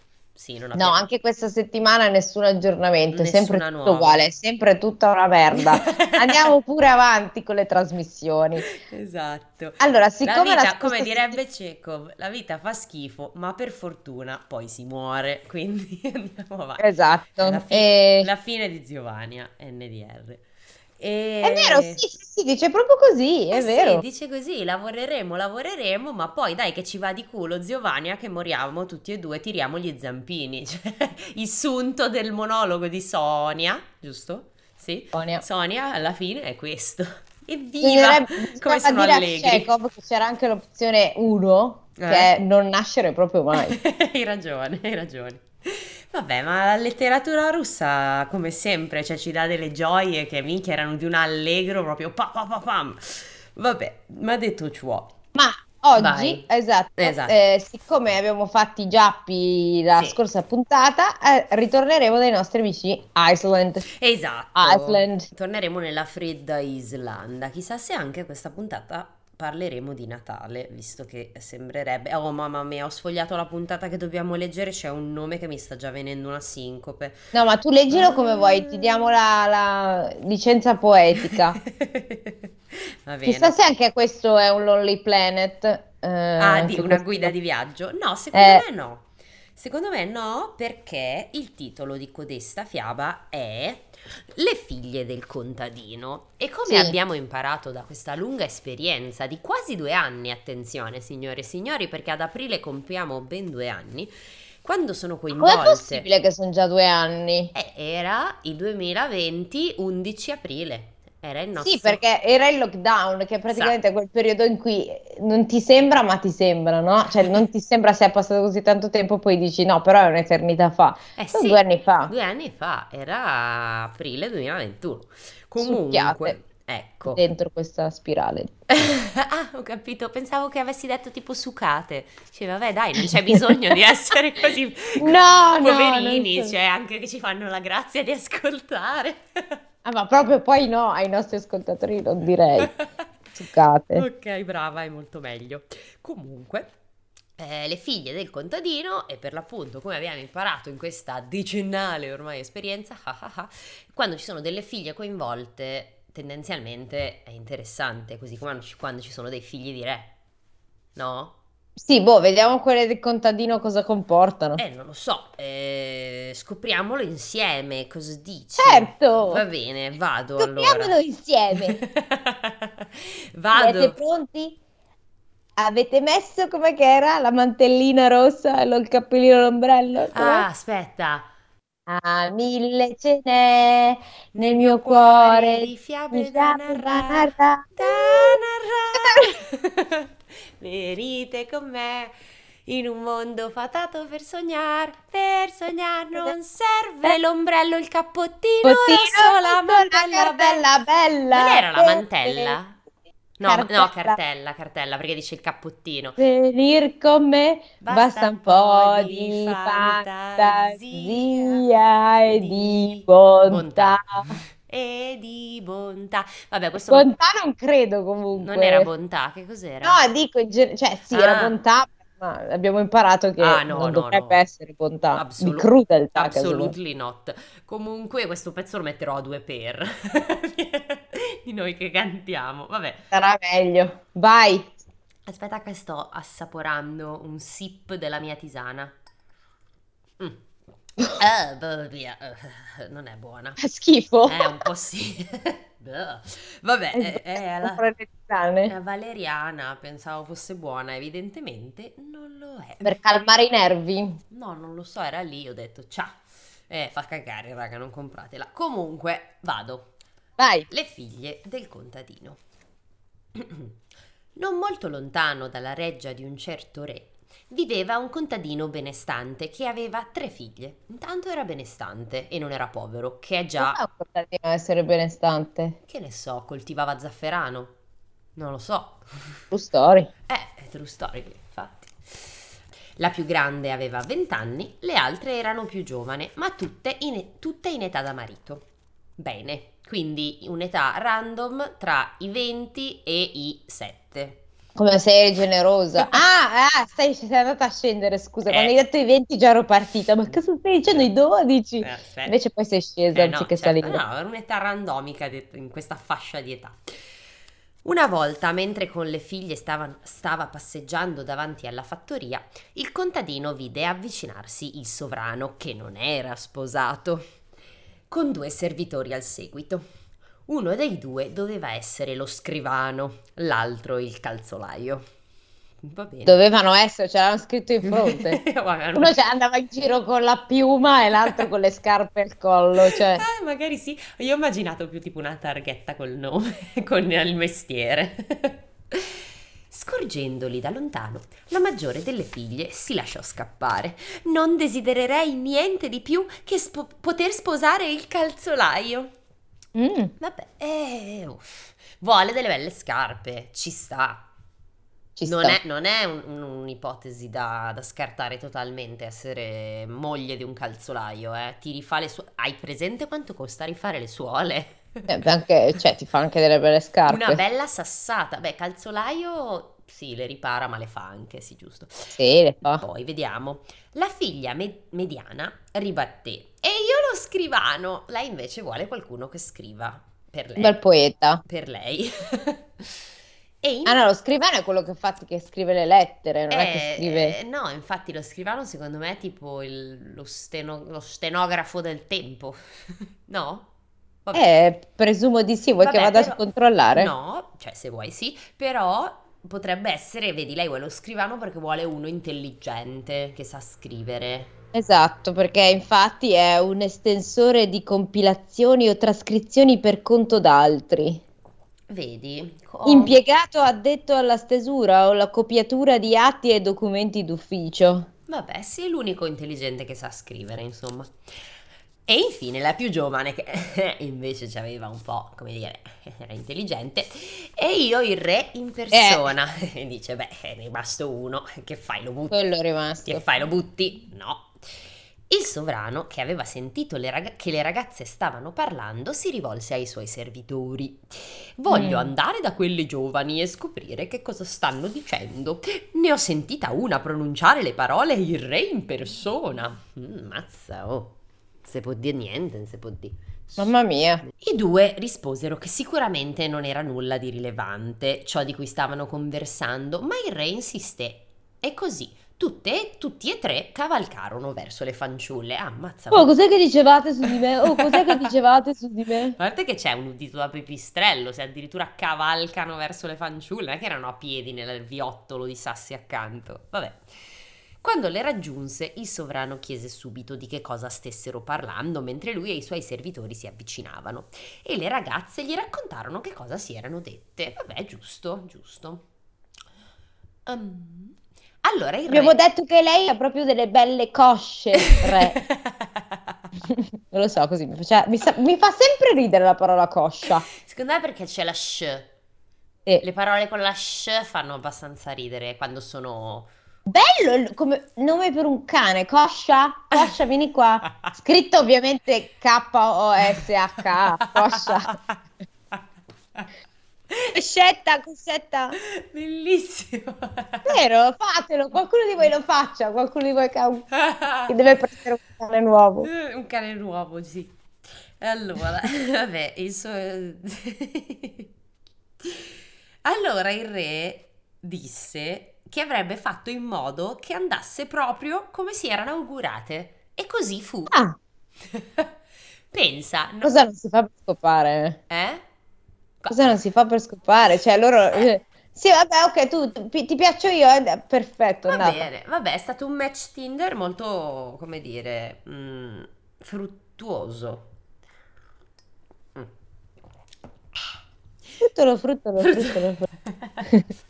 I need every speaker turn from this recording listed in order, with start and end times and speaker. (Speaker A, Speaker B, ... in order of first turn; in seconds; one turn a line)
Speaker A: 0.3-1.1
Speaker B: 0.8-8.7
Speaker A: 3.1-4.2
Speaker A: 5.5-6.5
Speaker A: 8.6-20.4
Speaker B: 9.8-11.4
Speaker B: 16.8-18.3
Speaker A: 21.0-22.1
Speaker B: 21.4-24.0
Speaker A: 23.5-39.7
Speaker B: 35.1-35.4
Speaker B: 37.8-43.8
Speaker A: 42.0-42.3
Speaker A: 43.6-55.1
Speaker B: 55.3-63.8
Speaker A: 55.9-56.4
Speaker A: 57.0-57.4
Speaker A: 59.9-60.2
Speaker A: 63.9-77.2
Speaker B: 64.5-65.3
Speaker B: 77.3-81.6
Speaker A: 77.9-79.1
Speaker A: 81.3-83.5
Speaker B: 83.2-87.3
Speaker A: 86.4-106.0
Speaker B: 88.3-88.6
Speaker B: 96.7-96.9
Speaker B: 105.3-107.5
Speaker A: 107.5-112.0
Speaker B: 111.5-122.1
Speaker A: 113.5-113.8
Speaker A: 117.1-117.4
Speaker A: 121.2-127.2
Speaker B: 125.6-126.3
Speaker B: 127.1-128.5
Speaker A: 128.7-139.6
Speaker B: 134.9-136.5
Speaker B: 139.8-142.7
Speaker B: 143.3-144.0
Speaker A: 143.9-146.7
Speaker A: 147.4-160.1
Speaker A: 160.9-161.3
Speaker B: 161.8-164.6
Speaker A: 164.6-170.9
Speaker B: 168.6-169.4
Speaker B: 170.4-171.8
Speaker A: 171.7-174.0
Speaker B: 173.5-174.6
Speaker B: 175.6-180.4
Speaker A: 180.1-181.3
Speaker B: 181.9-188.4
Speaker A: 184.3-200.7
Speaker B: 188.9-189.2
Speaker B: 198.6-202.6
Speaker A: 201.3-202.8
Speaker A: 203.4-206.2
Speaker B: 203.4-204.2
Speaker B: 206.2-214.4
Speaker A: 207.8-211.6
Speaker A: 212.3-217.1
Speaker B: 216.9-218.9
Speaker A: 218.3-220.0
Speaker B: 219.8-226.7
Speaker A: 221.1-221.6
Speaker A: 223.4-224.4
Speaker A: 225.1-233.0
Speaker B: 233.1-234.7
Speaker A: 235.2-238.9
Speaker A: 241.1-243.6
Speaker B: 243.6-244.7
Speaker A: 244.2-247.8
Speaker B: 246.9-248.7
Speaker A: 248.7-252.9
Speaker B: 252.8-254.2
Speaker A: 254.3-259.9
Speaker B: 260.4-260.7
Speaker A: 260.7-262.4
Speaker A: 263.3-263.8
Speaker A: 264.4-273.8
Speaker B: 273.6-275.8
Speaker A: 275.9-277.7
Speaker A: 278.4-279.4
Speaker B: 279.5-280.1
Speaker A: 280.3-282.4
Speaker A: 283.0-288.6
Speaker A: 289.2-294.4
Speaker B: 294.8-304.0
Speaker A: 296.0-296.2
Speaker A: 298.5-298.7
Speaker A: 300.3-301.1
Speaker A: 301.8-302.3
Speaker A: 303.1-306.9
Speaker A: 307.8-317.2
Speaker A: 318.1-319.8
Speaker A: 320.5-325.1
Speaker A: 325.8-326.4
Speaker B: 326.2-328.4
Speaker A: 327.8-329.2
Speaker B: 328.9-333.2
Speaker A: 332.9-349.1
Speaker B: 349.7-350.1
Speaker A: 350.2-354.3
Speaker B: 355.2-355.6
Speaker A: 355.2-365.2
Speaker B: 365.1-367.4
Speaker A: 367.1-380.8
Speaker B: 372.1-372.8
Speaker B: 380.6-381.4
Speaker A: 381.4-383.0
Speaker A: 383.6-384.0
Speaker B: 383.9-387.4
Speaker A: 386.5-393.7
Speaker B: 394.3-397.1
Speaker A: 395.8-404.5
Speaker B: 404.7-411.2
Speaker A: 411.9-413.2
Speaker B: 412.8-418.1
Speaker A: 418.3-421.1
Speaker A: 422.1-432.4
Speaker B: 428.9-429.3
Speaker B: 432.3-433.2
Speaker A: 433.0-453.7
Speaker B: 441.7-442.1
Speaker B: 453.6-454.2
Speaker A: 454.3-466.3
Speaker B: 466.1-469.4
Speaker A: 467.2-468.3
Speaker A: 469.3-477.1
Speaker A: 477.8-489.0
Speaker A: 490.4-492.4
Speaker B: 492.1-495.4
Speaker A: 494.9-496.4
Speaker B: 496.7-500.5
Speaker A: 500.5-502.1
Speaker A: 503.0-506.5
Speaker B: 506.9-514.9
Speaker A: 514.2-515.0
Speaker B: 517.3-518.8
Speaker A: 518.8-520.8
Speaker B: 520.6-523.9
Speaker A: 524.0-524.5
Speaker B: 524.5-526.1
Speaker A: 526.0-527.5
Speaker A: 528.2-531.5
Speaker A: 532.2-541.0
Speaker B: 540.9-541.2
Speaker A: 541.6-542.1
Speaker A: 542.7-543.6
Speaker B: 543.4-545.0
Speaker A: 545.1-545.4
Speaker A: 546.2-546.5
Speaker B: 546.3-552.1
Speaker A: 551.7-557.7
Speaker B: 561.6-563.1
Speaker A: 562.4-563.6